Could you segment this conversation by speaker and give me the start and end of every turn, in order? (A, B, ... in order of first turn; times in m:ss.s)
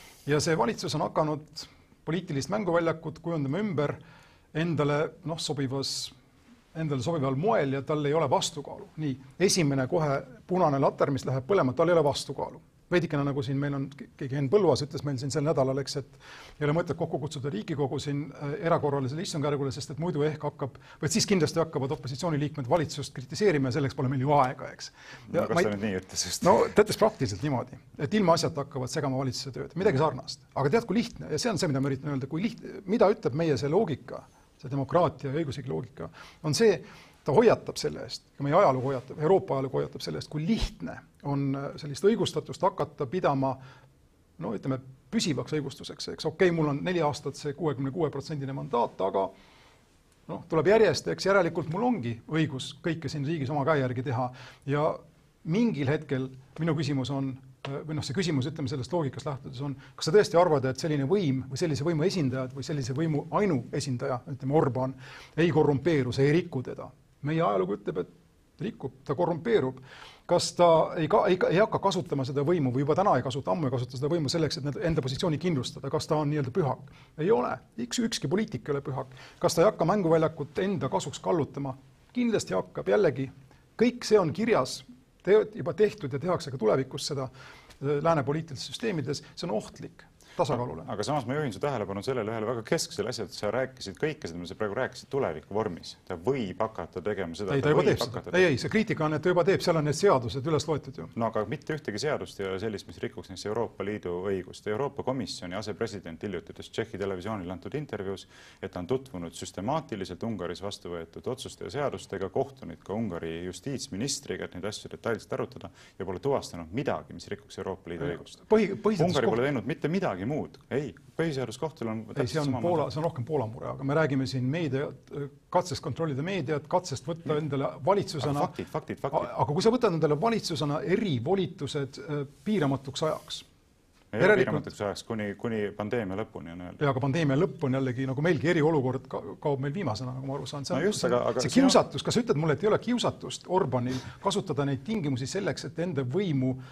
0:00.3-0:04.0 A
0:04.5-0:06.1 A
0:06.7-0:25.7 A
0:25.3-0:26.7 B
0:26.4-0:43.6 A
0:44.4-0:49.3 A
0:50.3-1:30.9 A
1:30.5-1:38.5 B
1:37.5-1:41.1 A
1:41.1-1:58.4 B
1:58.0-1:59.4 A
1:59.0-2:02.9 B
2:02.2-2:08.5 A
2:08.2-2:09.3 B
2:09.1-2:13.5 A
2:14.1-2:16.8 B
2:14.2-2:14.7 A
2:16.8-2:26.6 A
2:20.7-2:21.8 B